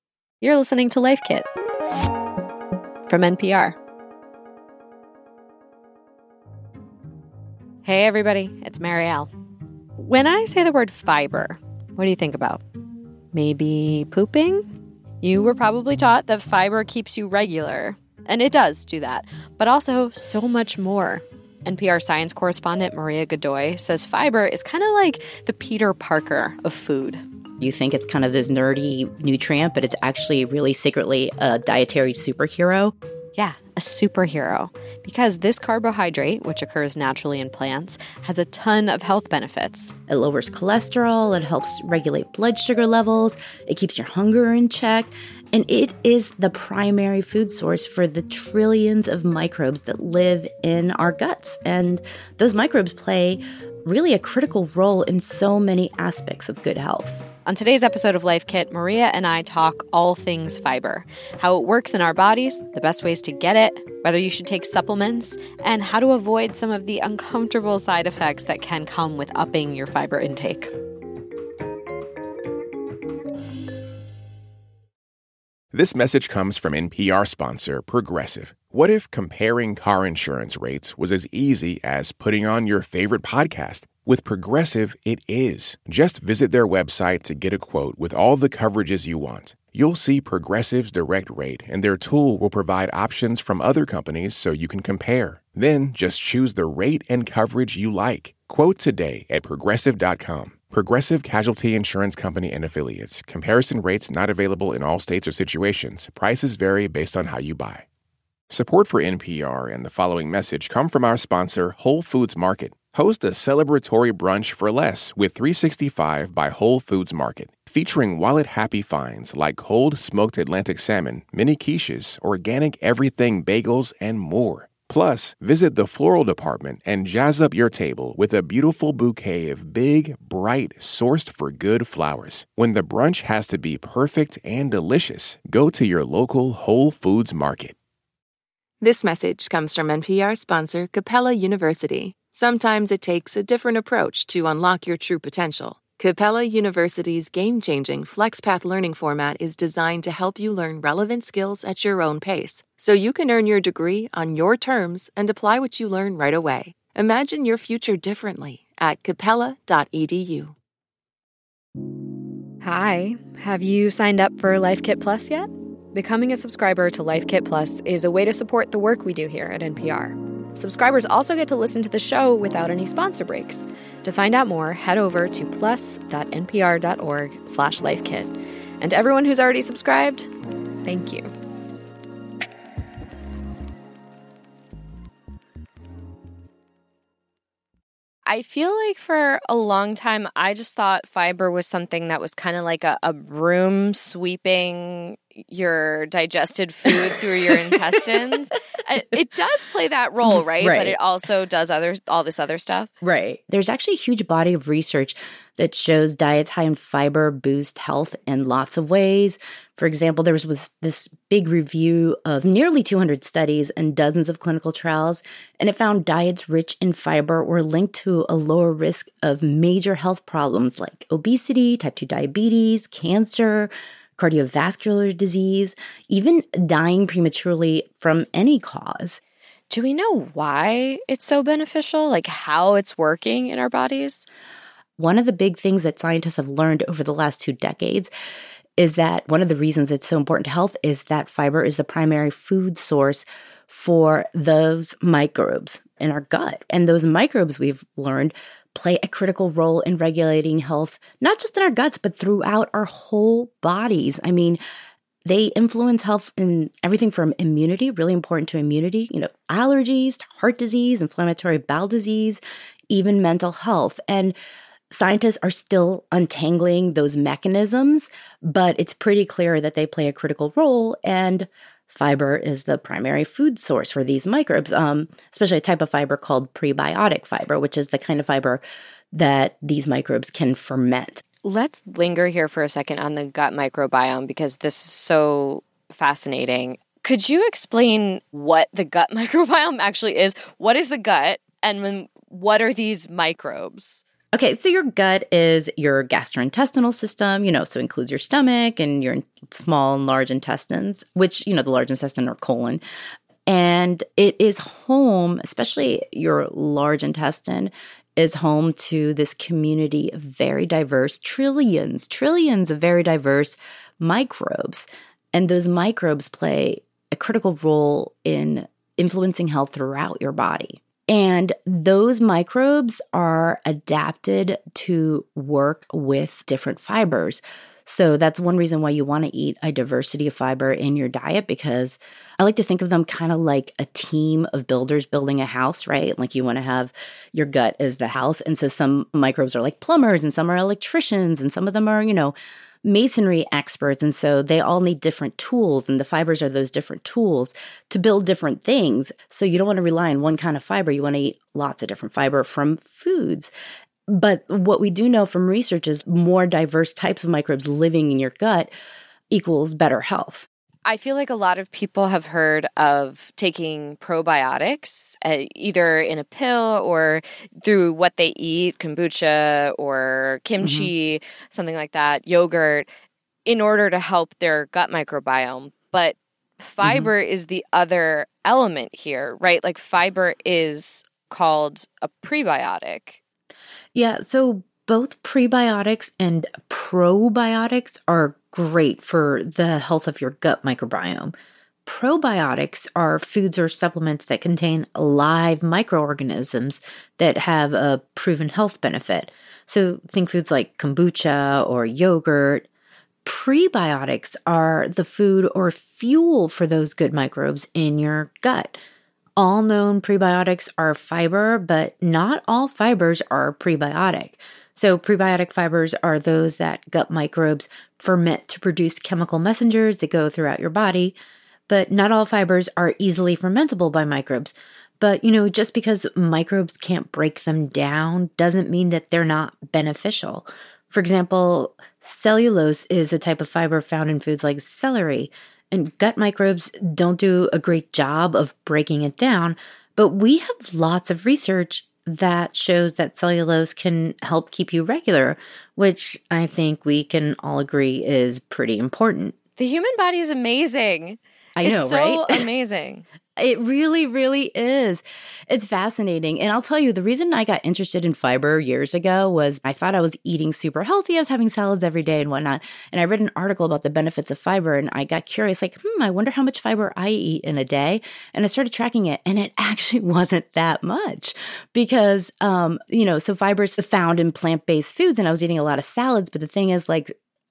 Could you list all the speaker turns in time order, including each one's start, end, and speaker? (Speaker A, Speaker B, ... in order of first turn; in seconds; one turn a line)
Speaker A: 0.4-1.5
Speaker A: 3.1-3.8
Speaker A: 7.8-9.3
Speaker A: 10.0-12.6
Speaker A: 13.3-27.2
Speaker B: 27.6-32.9
Speaker A: 33.3-39.9
Speaker B: 40.1-57.2
Speaker A: 57.5-70.7
Speaker C: 75.7-107.9
Speaker C: 108.5-137.8
Speaker D: 138.8-160.5
Speaker A: 162.6-180.3
Speaker A: 180.8-181.3
Speaker A: 188.2-202.9
Speaker B: 200.3-201.0
Speaker B: 203.0-229.2
Speaker A: 229.7-234.3
Speaker B: 235.0-238.1
Speaker B: 238.8-254.6
Speaker B: 255.2-264.4
Speaker B: 264.9-281.2
Speaker A: 281.4-294.0
Speaker B: 294.3-302.8
Speaker B: 303.4-353.5
Speaker B: 354.1-358.7
Speaker B: 359.3-360.5
Speaker A: 360.9-372.9
Speaker B: 370.6-370.9
Speaker A: 373.4-383.2
Speaker B: 376.8-377.1
Speaker B: 383.9-391.3
Speaker B: 391.9-402.6
Speaker B: 403.2-408.8
Speaker B: 409.4-421.2
Speaker B: 421.7-449.4
Speaker A: 449.6-453.1
Speaker B: 451.6-452.4
Speaker B: 453.4-477.1